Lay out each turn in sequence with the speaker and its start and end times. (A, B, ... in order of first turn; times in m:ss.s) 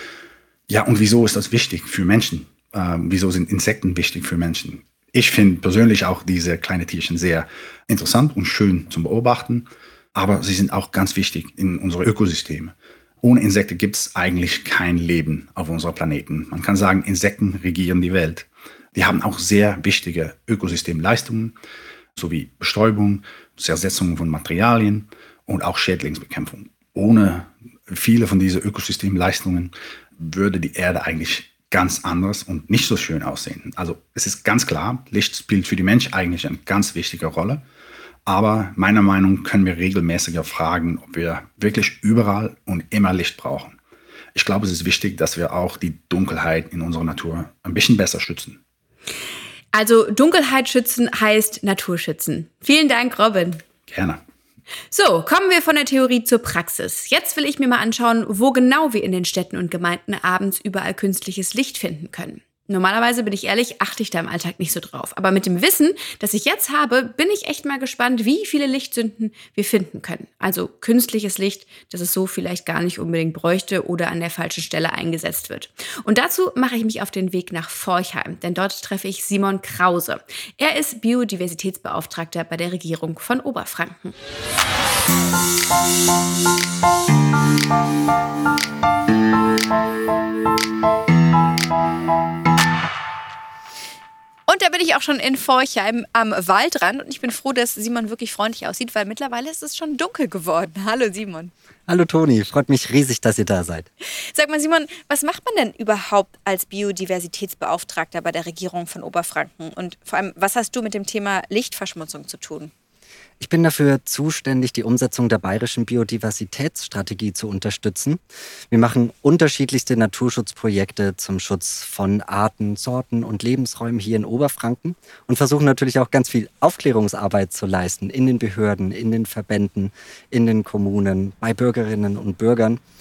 0:00.7-0:21.5 A
0:22.2-0:37.6 A
0:38.2-0:43.8 A
0:44.3-0:48.6 A
0:49.7-0:53.6 B
0:53.9-0:54.2 A
0:54.9-1:24.2 B
1:34.5-1:41.5 B
1:41.9-1:43.9 C
1:44.2-1:52.7 B
1:53.4-2:12.8 C